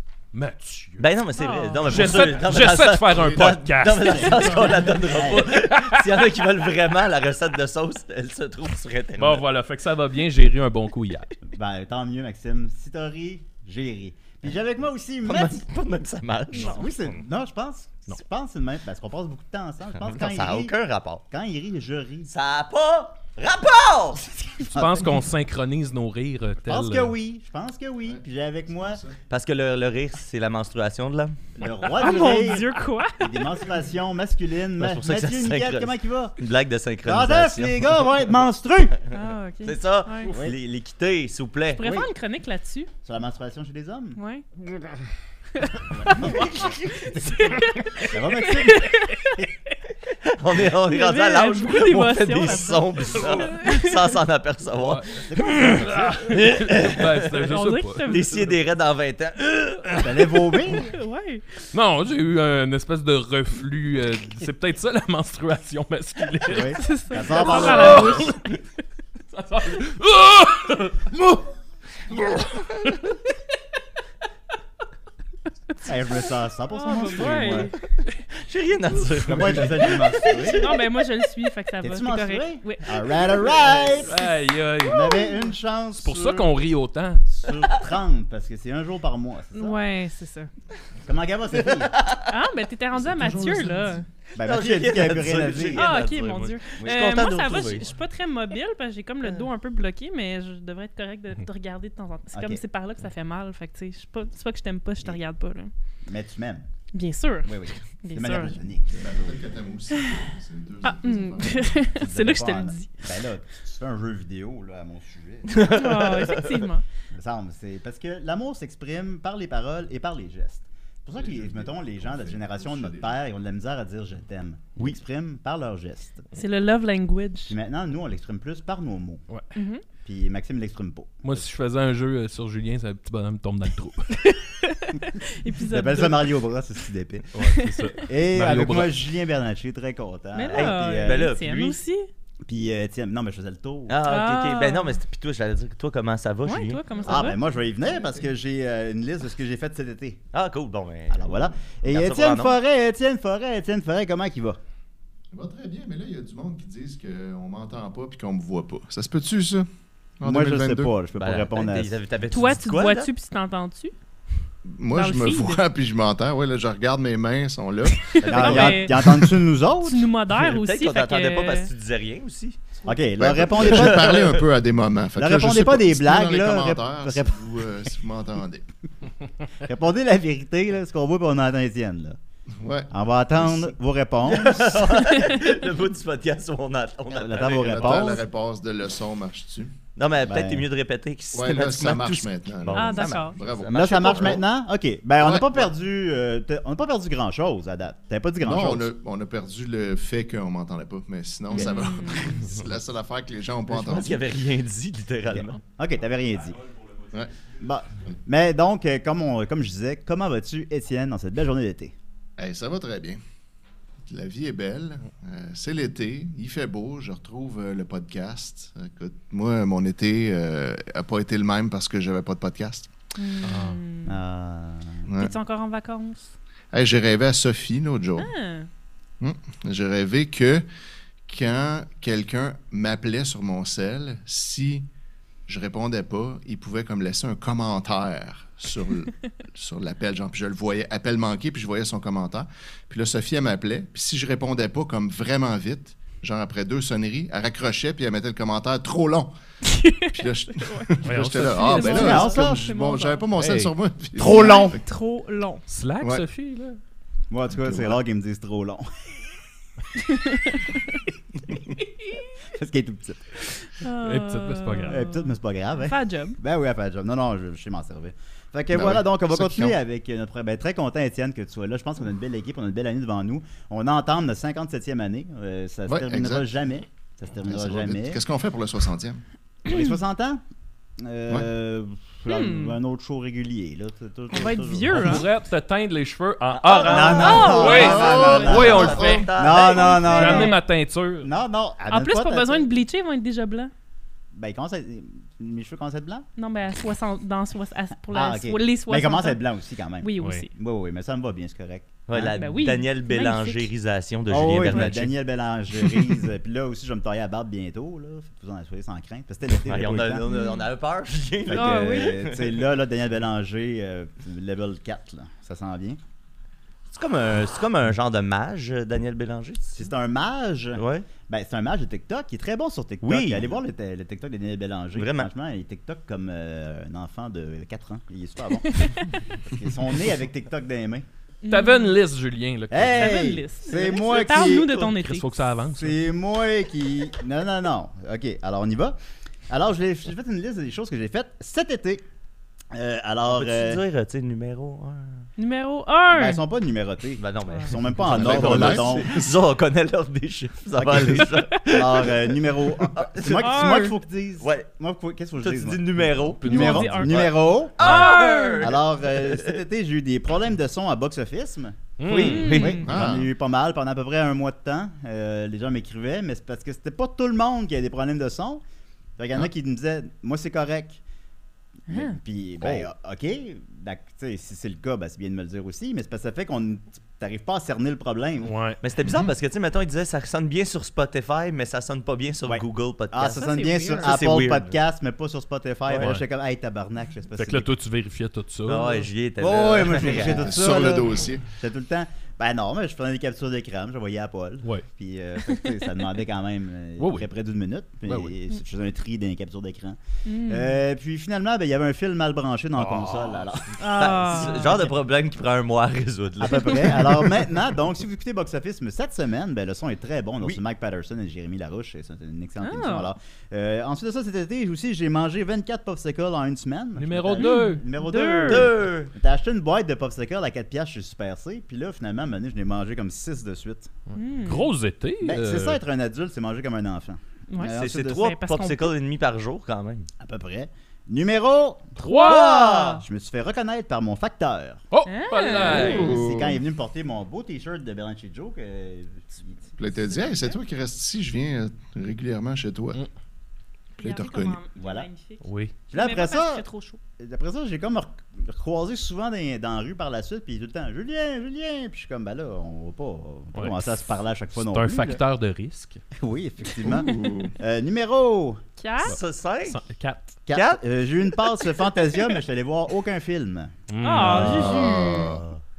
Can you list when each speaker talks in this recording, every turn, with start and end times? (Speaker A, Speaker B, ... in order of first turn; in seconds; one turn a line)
Speaker A: 0.3-1.1
Speaker B: 1.0-9.4
Speaker C: 1.4-1.9
Speaker A: 1.9-6.4
Speaker D: 3.1-4.8
Speaker E: 5.1-5.5
Speaker A: 9.2-11.3
Speaker E: 11.5-15.7
Speaker B: 15.2-16.8
Speaker C: 16.5-16.8
Speaker E: 16.6-20.7
Speaker B: 20.1-21.2
Speaker E: 21.3-22.3
Speaker B: 22.3-24.3
Speaker A: 24.6-27.1
Speaker E: 24.7-25.1
Speaker E: 26.6-29.0
Speaker D: 28.0-29.2
Speaker B: 29.3-32.0
Speaker E: 31.6-36.4
Speaker C: 32.0-33.4
Speaker B: 34.8-38.0
Speaker E: 37.0-39.0
Speaker C: 39.1-40.3
Speaker B: 39.6-41.8
Speaker E: 40.3-40.5
Speaker C: 41.7-42.9
Speaker E: 41.8-42.1
Speaker E: 43.0-44.9
Speaker C: 44.2-44.4
Speaker C: 45.6-49.5
Speaker E: 45.9-48.9
Speaker B: 50.2-55.0
Speaker C: 50.8-54.2
Speaker A: 54.8-58.4
Speaker E: 55.3-56.4
Speaker B: 56.3-57.5
Speaker C: 57.5-58.3
Speaker B: 58.0-60.1
Speaker E: 60.0-60.9
Speaker C: 60.7-61.6
Speaker A: 61.7-68.5
Speaker E: 66.5-68.2
Speaker C: 66.8-68.5
Speaker A: 69.3-71.2
Speaker A: 72.2-73.0
Speaker E: 75.8-77.7
Speaker C: 76.7-77.7
Speaker B: 78.3-80.4
Speaker E: 79.2-80.8
Speaker C: 80.4-83.6
Speaker E: 81.8-84.2
Speaker A: 84.1-85.0
Speaker E: 84.8-86.5
Speaker C: 84.9-85.5
Speaker A: 86.0-87.2
Speaker E: 87.3-89.8
Speaker C: 89.5-90.5
Speaker E: 91.0-91.9
Speaker B: 91.7-92.3
Speaker C: 92.3-94.0
Speaker D: 93.0-94.0
Speaker E: 94.3-95.9
Speaker B: 94.4-97.9
Speaker C: 95.7-105.7
Speaker E: 96.8-97.2
Speaker E: 102.3-102.6
Speaker E: 106.0-106.7
Speaker C: 106.9-108.6
Speaker E: 107.4-109.4
Speaker D: 108.9-111.9
Speaker C: 110.8-112.9
Speaker E: 111.9-115.7
Speaker B: 115.5-116.6
Speaker C: 115.6-116.8
Speaker E: 117.1-126.3
Speaker D: 121.1-123.2
Speaker C: 126.3-127.5
Speaker E: 127.5-129.2
Speaker C: 129.5-129.8
Speaker E: 130.0-131.4
Speaker A: 131.2-134.3
Speaker C: 134.2-136.3
Speaker E: 135.7-137.4
Speaker A: 137.3-138.9
Speaker C: 137.4-137.9
Speaker E: 138.1-141.3
Speaker C: 140.3-142.1
Speaker B: 140.5-141.8
Speaker E: 142.4-144.0
Speaker B: 143.9-146.8
Speaker C: 144.0-145.0
Speaker C: 146.4-147.4
Speaker D: 146.9-148.3
Speaker E: 147.0-150.2
Speaker B: 150.3-152.5
Speaker E: 151.1-154.6
Speaker D: 155.3-159.7
Speaker D: 160.2-160.9
Speaker E: 160.2-162.0
Speaker B: 161.2-163.1
Speaker C: 162.3-163.9
Speaker D: 164.7-168.2
Speaker C: 164.9-165.6
Speaker C: 167.9-169.2
Speaker B: 168.2-168.8
Speaker E: 168.2-170.1
Speaker C: 169.8-171.7
Speaker B: 170.3-172.9
Speaker E: 172.8-174.3
Speaker D: 173.2-178.7
Speaker B: 173.7-174.4
Speaker E: 175.2-177.4
Speaker E: 179.6-182.2
Speaker D: 182.6-183.7
Speaker E: 182.9-184.9
Speaker B: 184.2-188.2
Speaker E: 187.1-188.2
Speaker D: 187.6-189.8
Speaker B: 189.9-194.4
Speaker E: 190.2-190.7
Speaker D: 191.3-194.4
Speaker C: 192.7-193.4
Speaker E: 193.7-198.9
Speaker D: 195.2-195.7
Speaker D: 198.4-204.2
Speaker C: 201.5-202.4
Speaker B: 203.7-205.6
Speaker E: 205.7-206.6
Speaker E: 207.5-211.9
Speaker D: 212.4-213.2
Speaker D: 214.1-222.9
Speaker C: 223.2-224.2
Speaker A: 223.4-223.8
Speaker E: 224.1-225.1
Speaker D: 225.0-225.4
Speaker C: 225.2-226.3
Speaker D: 226.7-228.3
Speaker C: 228.2-228.7
Speaker D: 229.2-230.6
Speaker D: 231.2-234.9
Speaker D: 235.5-249.3
Speaker C: 249.6-253.2
Speaker D: 250.0-254.8
Speaker A: 251.0-252.2
Speaker E: 251.8-252.7
Speaker A: 253.3-253.7
Speaker E: 254.2-254.8
Speaker C: 254.2-255.6
Speaker A: 255.7-256.8
Speaker E: 257.3-259.1
Speaker D: 257.6-258.0
Speaker C: 260.0-261.0
Speaker E: 262.5-263.4
Speaker C: 263.7-266.4
Speaker A: 264.0-265.0
Speaker E: 264.9-278.2
Speaker D: 268.7-269.8
Speaker D: 275.9-276.5
Speaker D: 277.4-279.2
Speaker E: 279.6-280.4
Speaker E: 281.0-285.2
Speaker C: 282.3-282.8
Speaker C: 284.3-285.2
Speaker A: 284.9-289.3
Speaker B: 286.5-290.1
Speaker C: 286.7-290.6
Speaker E: 286.8-290.6
Speaker D: 287.7-288.9
Speaker A: 290.0-291.3
Speaker E: 291.2-292.7
Speaker C: 291.9-293.7
Speaker E: 294.3-296.3
Speaker C: 296.4-299.4
Speaker E: 298.1-302.4
Speaker C: 300.0-300.5
Speaker B: 302.1-305.2
Speaker C: 302.4-303.7
Speaker E: 304.3-310.2
Speaker C: 304.6-304.9
Speaker B: 305.8-306.1
Speaker B: 309.6-312.5
Speaker C: 310.3-310.6
Speaker E: 311.4-316.0
Speaker C: 311.5-312.1
Speaker B: 316.9-319.9
Speaker E: 319.7-331.1
Speaker B: 320.8-321.1
Speaker B: 323.0-323.6
Speaker B: 324.9-325.3
Speaker C: 328.6-329.2
Speaker C: 331.4-332.0
Speaker A: 331.5-333.3
Speaker E: 332.7-334.9
Speaker C: 332.8-335.2
Speaker A: 334.5-336.0
Speaker E: 335.7-339.0
Speaker E: 339.5-342.0
Speaker E: 342.7-343.8
Speaker B: 343.3-345.2
Speaker C: 345.4-346.4
Speaker E: 346.1-349.2
Speaker B: 347.2-353.8
Speaker D: 348.0-349.3
Speaker E: 350.8-368.6
Speaker C: 351.3-351.6
Speaker C: 353.3-354.0
Speaker B: 354.4-354.7
Speaker B: 355.4-359.6
Speaker A: 356.4-357.0
Speaker C: 356.4-358.7
Speaker A: 362.0-362.8
Speaker B: 362.0-363.0
Speaker C: 362.2-362.8
Speaker D: 362.8-363.3
Speaker E: 369.2-371.0
Speaker C: 371.9-372.2
Speaker E: 371.9-378.5
Speaker A: 378.4-378.8
Speaker B: 378.8-383.5
Speaker D: 379.0-379.3
Speaker E: 382.4-387.7
Speaker C: 383.3-384.2
Speaker B: 384.0-384.7
Speaker A: 385.9-386.2
Speaker A: 387.4-389.1
Speaker B: 388.6-390.5
Speaker E: 389.4-404.5
Speaker D: 390.1-391.4
Speaker A: 397.0-397.3
Speaker A: 398.1-398.4
Speaker C: 400.2-400.8
Speaker A: 402.8-403.4
Speaker C: 403.8-404.8
Speaker B: 403.9-407.3
Speaker E: 406.4-423.9
Speaker C: 412.6-413.1
Speaker A: 417.0-417.8
Speaker C: 417.4-418.7
Speaker B: 418.5-419.1
Speaker A: 424.1-425.8
Speaker C: 424.1-424.7
Speaker E: 425.2-428.3
Speaker C: 427.5-428.9
Speaker B: 427.7-430.1
Speaker E: 430.2-434.8
Speaker C: 432.0-433.0
Speaker A: 432.0-432.5
Speaker A: 434.9-436.1
Speaker C: 435.1-436.1
Speaker E: 435.4-439.8
Speaker D: 435.7-436.6
Speaker D: 439.8-443.0
Speaker C: 440.0-440.6
Speaker D: 444.0-444.6
Speaker C: 444.0-447.0
Speaker E: 444.8-445.1
Speaker A: 445.4-445.7
Speaker E: 445.9-446.6
Speaker E: 447.2-455.2
Speaker A: 453.5-453.9
Speaker A: 454.6-456.0
Speaker E: 456.1-458.6
Speaker D: 456.8-457.5
Speaker C: 458.8-459.1
Speaker B: 459.0-459.8
Speaker A: 459.1-460.4
Speaker E: 460.5-463.7
Speaker B: 460.5-460.8
Speaker A: 463.9-464.8
Speaker C: 464.0-465.3
Speaker D: 464.2-465.5
Speaker E: 464.2-465.4